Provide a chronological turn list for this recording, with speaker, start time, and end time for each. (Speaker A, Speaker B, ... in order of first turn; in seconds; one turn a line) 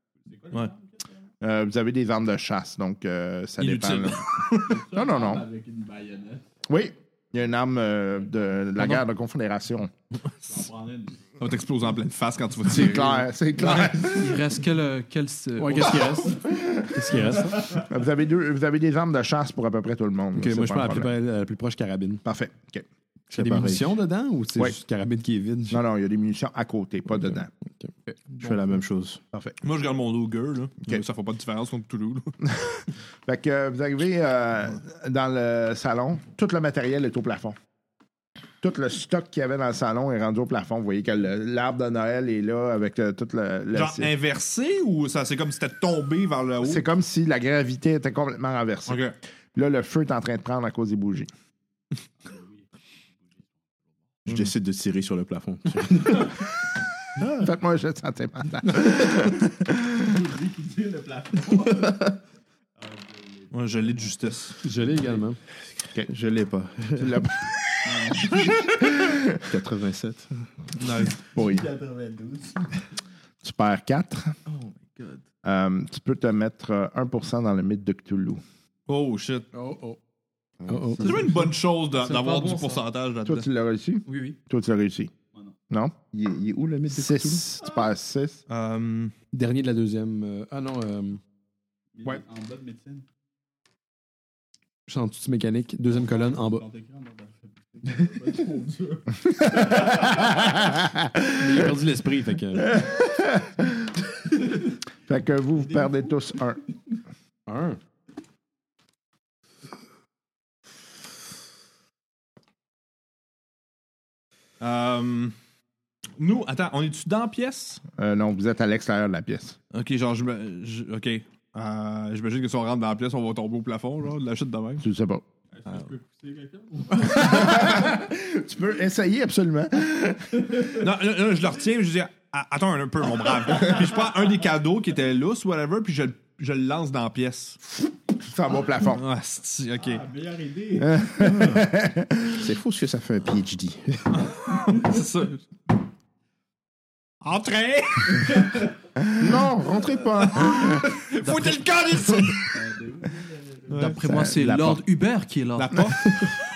Speaker A: 0.2-1.3
Speaker B: 1.4-4.2
Speaker C: 3.6-4.8
Speaker A: 4.6-6.4
Speaker B: 4.9-5.4
Speaker B: 6.7-9.9
Speaker D: 8.8-9.0
Speaker A: 10.5-11.3
Speaker C: 11.4-13.3
Speaker B: 12.7-14.4
Speaker D: 13.6-16.2
Speaker E: 15.6-17.8
Speaker B: 16.4-16.9
Speaker A: 17.5-17.8
Speaker B: 17.8-21.1
Speaker E: 20.3-22.2
Speaker B: 22.2-22.8
Speaker E: 23.3-25.8
Speaker F: 23.3-24.0
Speaker B: 25.7-27.5
Speaker D: 28.1-28.5
Speaker F: 28.4-29.2
Speaker C: 29.6-32.4
Speaker B: 33.2-37.5
Speaker B: 38.6-44.1
Speaker C: 43.7-46.8
Speaker B: 46.6-49.0
Speaker C: 48.9-49.1
Speaker B: 49.5-51.3
Speaker A: 52.2-52.7
Speaker A: 53.2-53.9
Speaker F: 54.2-56.3
Speaker B: 57.4-60.1
Speaker A: 60.0-62.2
Speaker A: 62.8-64.2
Speaker C: 63.5-64.6
Speaker E: 64.6-65.4
Speaker A: 64.8-65.2
Speaker F: 66.0-67.2
Speaker B: 67.0-67.5
Speaker A: 67.8-68.6
Speaker B: 68.3-69.4
Speaker F: 69.5-70.3
Speaker C: 70.8-71.2
Speaker A: 71.3-72.9
Speaker B: 71.3-71.6
Speaker B: 73.4-74.3
Speaker D: 74.5-75.2
Speaker B: 75.4-78.4
Speaker C: 78.9-79.5
Speaker E: 79.5-80.0
Speaker F: 80.6-81.3
Speaker E: 80.7-81.4
Speaker C: 81.0-83.5
Speaker D: 81.9-82.8
Speaker B: 83.2-85.1
Speaker D: 84.0-84.4
Speaker F: 86.1-87.4
Speaker B: 86.9-88.4
Speaker C: 88.5-89.1
Speaker E: 89.3-91.2
Speaker A: 91.9-93.0
Speaker E: 94.9-96.6
Speaker A: 95.9-100.3
Speaker B: 99.5-101.5
Speaker E: 101.4-102.7
Speaker B: 102.6-103.7
Speaker B: 105.1-106.6
Speaker A: 105.7-106.1
Speaker E: 107.5-107.8
Speaker C: 114.6-115.3
Speaker C: 116.2-117.8
Speaker B: 118.0-119.6
Speaker C: 119.7-124.8
Speaker B: 124.8-125.2
Speaker A: 125.5-127.9
Speaker B: 127.1-130.6
Speaker A: 130.4-130.7
Speaker C: 130.8-137.6
Speaker B: 138.2-139.0
Speaker C: 138.9-140.0
Speaker A: 139.8-141.1
Speaker B: 140.8-142.4
Speaker F: 142.4-144.2
Speaker C: 144.2-145.4
Speaker C: 147.2-148.6
Speaker B: 149.0-150.9
Speaker C: 150.2-152.6
Speaker D: 151.2-151.6
Speaker A: 152.5-153.9
Speaker C: 153.7-154.0
Speaker D: 153.7-155.8
Speaker B: 154.0-154.8
Speaker C: 155.6-156.3